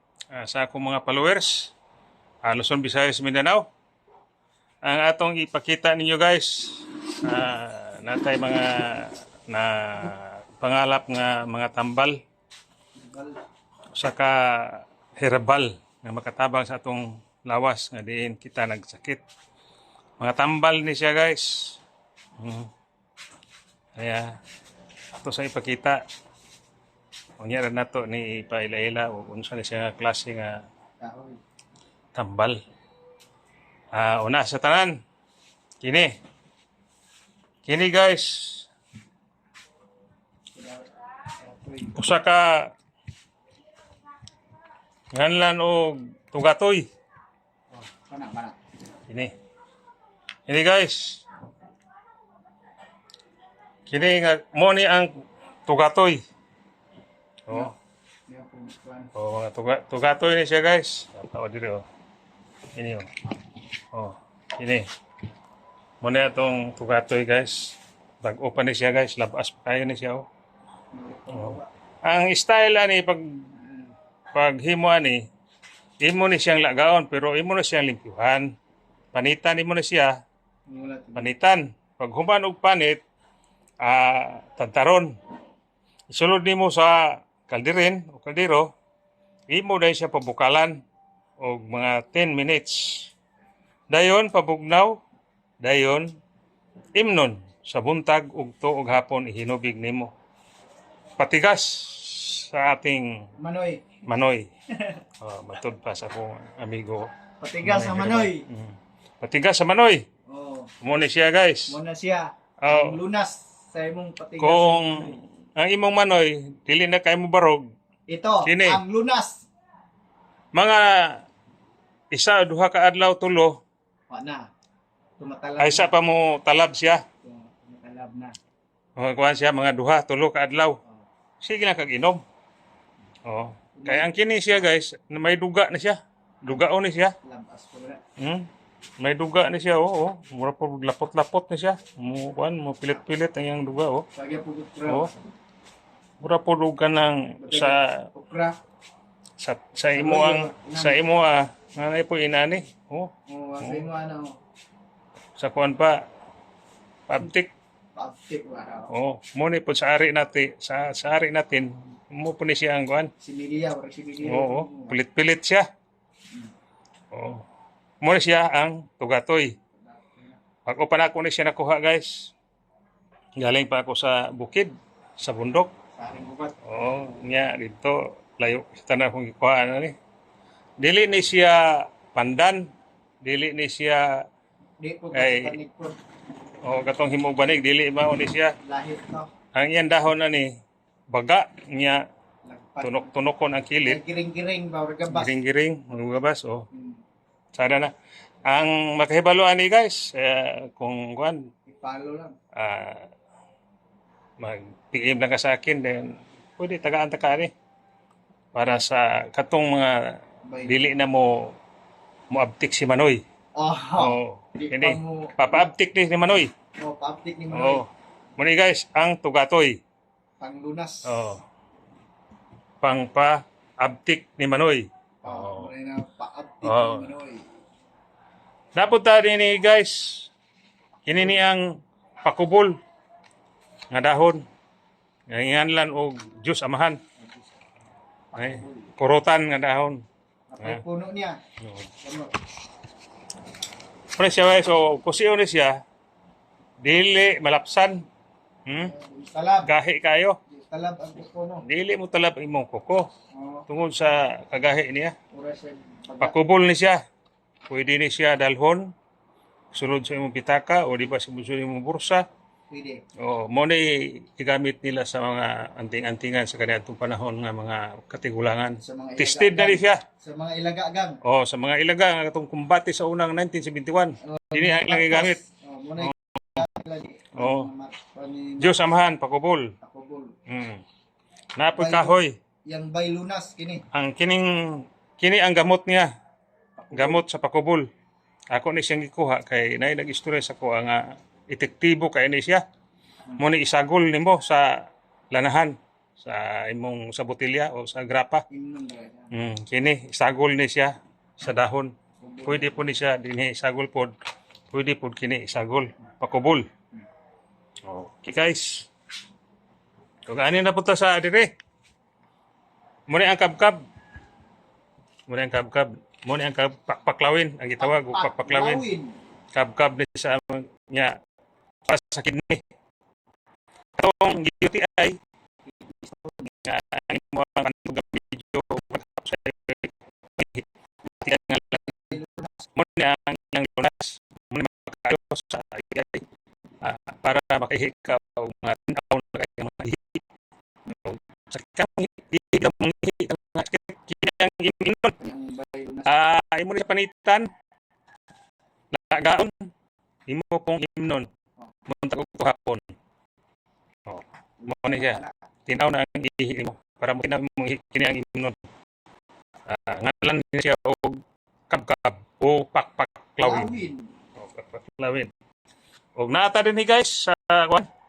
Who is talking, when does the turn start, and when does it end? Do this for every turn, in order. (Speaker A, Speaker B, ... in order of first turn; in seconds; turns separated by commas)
Speaker A: 0.3-1.7, Speaker A: 2.4-3.6, Speaker A: 4.8-12.2, Speaker B: 13.0-13.4, Speaker A: 13.9-19.2, Speaker A: 20.2-21.8, Speaker A: 22.4-22.7, Speaker A: 23.9-24.4, Speaker A: 25.2-26.0, Speaker A: 27.4-30.6, Speaker B: 31.0-31.4, Speaker A: 32.1-32.6, Speaker A: 33.9-34.9, Speaker A: 35.8-36.1, Speaker A: 37.6-38.7, Speaker B: 40.5-42.0, Speaker A: 41.9-42.7, Speaker A: 45.1-46.9, Speaker B: 48.1-48.6, Speaker A: 49.1-49.3, Speaker A: 50.5-51.2, Speaker A: 53.9-55.1, Speaker A: 55.6-56.2, Speaker A: 57.5-57.7, Speaker B: 58.3-59.1, Speaker A: 59.1-61.8, Speaker A: 62.8-63.2, Speaker A: 63.9-64.9, Speaker A: 66.0-70.2, Speaker B: 70.9-71.7, Speaker A: 71.3-73.7, Speaker A: 74.3-75.2, Speaker A: 76.0-78.5, Speaker A: 79.1-80.2, Speaker B: 80.7-81.3, Speaker A: 81.1-83.0, Speaker A: 83.8-85.1, Speaker A: 86.1-88.7, Speaker A: 89.5-90.8, Speaker A: 91.4-93.1, Speaker A: 93.9-95.0, Speaker A: 95.6-96.2, Speaker A: 97.0-100.1, Speaker A: 101.2-103.2, Speaker B: 103.4-103.8, Speaker A: 104.0-104.5, Speaker B: 104.7-105.0, Speaker A: 105.2-107.1, Speaker B: 107.4-108.4, Speaker A: 107.6-110.0, Speaker B: 110.3-110.7, Speaker A: 110.8-111.8, Speaker B: 111.7-115.2, Speaker A: 112.6-113.0, Speaker A: 114.4-117.7, Speaker B: 118.1-119.4, Speaker A: 118.4-118.8, Speaker A: 120.5-121.2, Speaker A: 122.1-123.6, Speaker B: 124.1-124.4, Speaker B: 125.2-125.9, Speaker A: 125.6-127.0, Speaker B: 127.2-128.3, Speaker A: 129.0-130.8, Speaker A: 131.4-132.2, Speaker A: 133.3-137.1, Speaker B: 133.8-134.6, Speaker B: 137.2-138.0, Speaker A: 138.2-138.5, Speaker A: 139.0-144.0, Speaker B: 144.1-145.2, Speaker A: 146.2-148.1, Speaker B: 147.4-148.5, Speaker A: 149.4-153.8, Speaker B: 149.9-151.1, Speaker B: 153.3-154.3, Speaker A: 155.4-156.0, Speaker A: 157.1-157.5, Speaker B: 157.9-158.9, Speaker A: 158.9-163.1, Speaker B: 163.2-165.0, Speaker A: 164.2-165.7, Speaker A: 167.1-167.4, Speaker A: 168.0-169.5, Speaker B: 169.8-170.4, Speaker A: 170.7-172.3, Speaker A: 173.4-175.7, Speaker B: 176.0-176.6, Speaker A: 176.6-179.9, Speaker A: 180.8-182.7, Speaker A: 183.2-184.1, Speaker B: 184.8-186.0, Speaker A: 185.1-185.6, Speaker A: 186.6-188.5, Speaker B: 188.6-189.3, Speaker A: 189.5-190.5, Speaker A: 191.1-192.0, Speaker B: 192.5-193.1, Speaker A: 192.8-194.0, Speaker B: 193.8-195.3, Speaker A: 195.1-196.7, Speaker B: 196.7-197.0, Speaker A: 197.5-197.9, Speaker A: 198.5-201.4, Speaker B: 201.7-202.3, Speaker A: 202.5-203.1, Speaker A: 204.4-207.5, Speaker A: 208.5-211.5, Speaker B: 210.5-210.9, Speaker A: 212.3-213.2, Speaker B: 213.6-215.6, Speaker A: 214.0-216.5, Speaker B: 216.8-217.8, Speaker A: 217.5-219.8, Speaker B: 220.4-221.2, Speaker A: 221.1-221.4, Speaker A: 222.8-225.7, Speaker B: 225.2-227.5, Speaker A: 226.6-227.1, Speaker A: 228.8-230.3, Speaker A: 231.1-231.6, Speaker A: 232.2-232.8, Speaker A: 233.9-234.4, Speaker A: 235.3-237.0, Speaker B: 238.3-238.9, Speaker A: 238.3-240.0, Speaker B: 240.5-241.4, Speaker B: 242.0-242.4, Speaker A: 244.1-245.8, Speaker A: 246.8-248.1, Speaker A: 248.7-248.9, Speaker B: 248.8-249.7, Speaker A: 249.7-250.4, Speaker B: 250.5-251.7, Speaker A: 251.6-253.1, Speaker B: 253.3-253.7, Speaker A: 253.7-255.1, Speaker B: 255.3-256.4, Speaker A: 256.2-257.0, Speaker A: 257.7-258.9, Speaker A: 259.7-262.2, Speaker B: 262.7-263.0, Speaker A: 263.2-270.0, Speaker B: 268.8-271.2, Speaker A: 271.2-275.4, Speaker B: 274.2-278.8, Speaker A: 276.0-276.6, Speaker A: 277.4-277.7, Speaker A: 278.6-279.7, Speaker B: 279.8-280.3, Speaker A: 280.5-280.8, Speaker A: 281.6-282.3, Speaker B: 281.7-282.2, Speaker B: 282.7-283.8, Speaker A: 283.9-286.1, Speaker B: 286.8-287.2, Speaker A: 286.9-287.9, Speaker A: 288.5-292.6, Speaker A: 293.4-298.4, Speaker B: 298.5-299.3, Speaker A: 299.3-301.9, Speaker B: 302.2-302.9, Speaker A: 302.4-304.1, Speaker A: 304.7-306.6, Speaker A: 307.9-308.9, Speaker A: 310.3-311.5, Speaker A: 313.1-313.8, Speaker A: 315.3-318.9, Speaker B: 317.8-319.1, Speaker A: 319.5-321.2, Speaker A: 321.9-322.6, Speaker A: 324.0-325.2, Speaker A: 326.4-330.6, Speaker A: 331.2-332.2, Speaker B: 332.1-332.5, Speaker A: 332.7-336.2, Speaker A: 336.8-340.2, Speaker A: 340.9-345.2, Speaker B: 345.2-346.1, Speaker A: 346.1-347.5, Speaker A: 348.9-349.7, Speaker A: 350.3-351.3, Speaker A: 351.9-352.9, Speaker A: 354.1-358.6, Speaker B: 354.6-355.3, Speaker A: 359.7-363.8, Speaker B: 363.4-364.1, Speaker A: 364.4-365.3, Speaker A: 366.1-367.9